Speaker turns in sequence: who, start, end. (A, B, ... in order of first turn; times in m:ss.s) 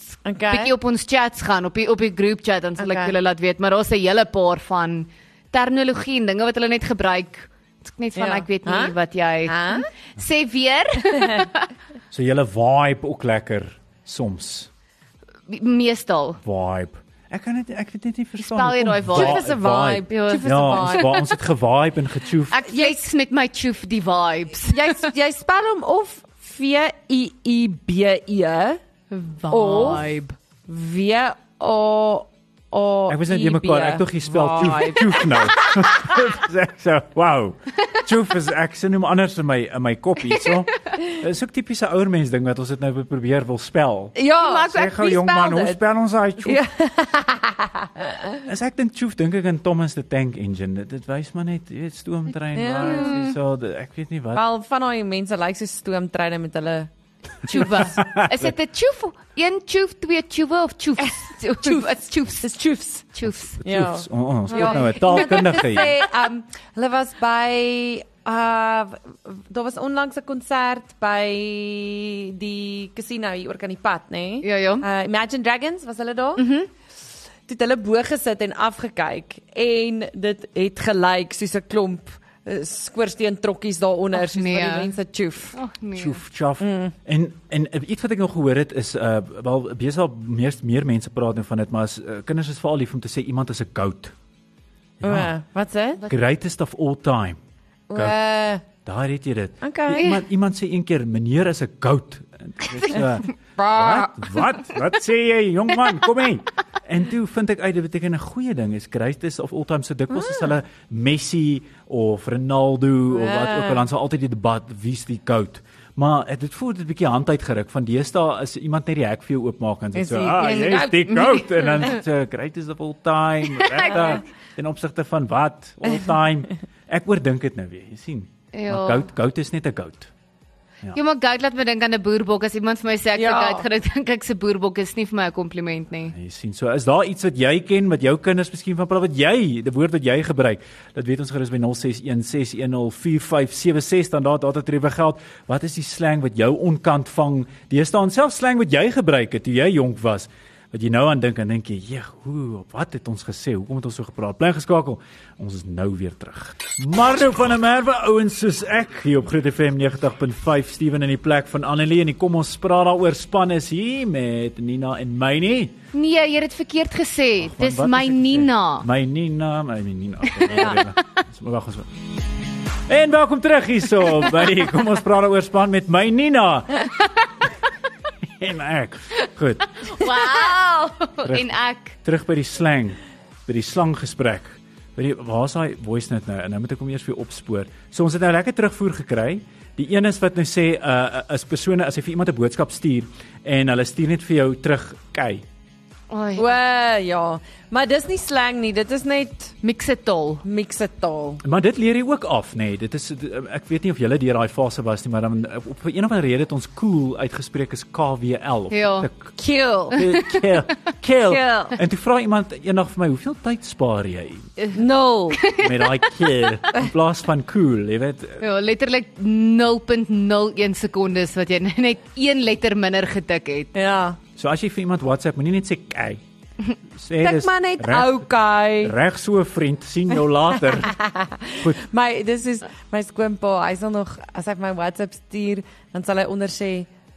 0:00.2-0:00.7 A
0:00.5-0:11.7 B
0:02.8-0:03.1 A
0:08.2-0:09.0 A
0:09.5-0:09.8 A
0:11.2-0:11.5 A
0:12.1-0:14.7 C
0:15.5-0:16.4 B
0:16.4-0:22.7 C
0:18.4-0:19.5 B
0:19.1-0:21.1 A
0:20.1-0:21.2 B
0:22.5-0:25.1 B
0:22.7-0:23.0 A
0:24.7-0:28.8 A
0:29.1-0:30.3 B
0:29.5-0:30.1 A
0:30.7-0:35.8 A
0:33.1-0:46.6 C
0:44.1-0:45.8 A
0:44.4-0:44.9 B
0:46.4-0:48.4 A
0:48.4-0:54.4 C
0:52.5-0:53.3 A
0:52.8-0:53.3 B
0:54.3-0:56.9 A
0:57.5-1:03.6 B
0:57.6-0:58.5 C
1:01.0-1:03.0 A
1:03.2-1:05.9 C
1:03.6-1:16.4 A
1:04.5-1:05.4 B
1:14.4-1:14.8 B
1:16.4-1:16.7 B
1:17.5-1:25.6 A
1:24.1-1:24.9 B
1:25.5-1:26.2 B
1:26.0-1:34.1 C
1:26.6-1:26.9 A
1:35.0-1:35.4 C
1:35.0-1:36.0 A
1:36.1-1:37.4 C
1:37.9-1:38.6 A
1:38.8-2:10.1 C
1:39.6-1:40.1 A
1:39.9-1:40.2 B
1:43.6-1:44.3 A
1:53.1-1:53.8 A
1:59.9-2:01.4 A
2:00.4-2:02.0 B
2:03.6-2:04.0 A
2:08.5-2:09.0 B
2:10.9-2:16.1 B
2:13.1-2:13.6 A
2:16.1-2:45.8 C
2:45.9-2:48.8 B
2:47.4-2:51.9 C
2:50.3-2:50.8 B
2:50.5-2:50.8 A
2:52.9-2:56.9 C
2:58.2-2:59.7 C
2:59.8-3:01.9 B
3:01.2-3:15.4 C
3:16.1-3:16.6 B
3:16.4-3:19.5 A
3:19.6-3:20.4 B
3:20.4-3:21.4 A
3:21.4-3:29.3 C
3:28.7-3:29.1 B
3:29.4-3:30.0 A
3:29.9-3:34.5 C
3:30.0-3:30.5 B
3:31.2-3:31.8 A
3:34.7-3:35.4 A
3:35.4-3:36.1 B
3:35.6-3:38.4 C
3:38.4-3:43.7 B
3:43.7-3:44.2 A
3:44.4-3:46.2 C
3:46.9-3:50.9 C
3:47.2-3:48.9 A
3:50.8-3:56.9 A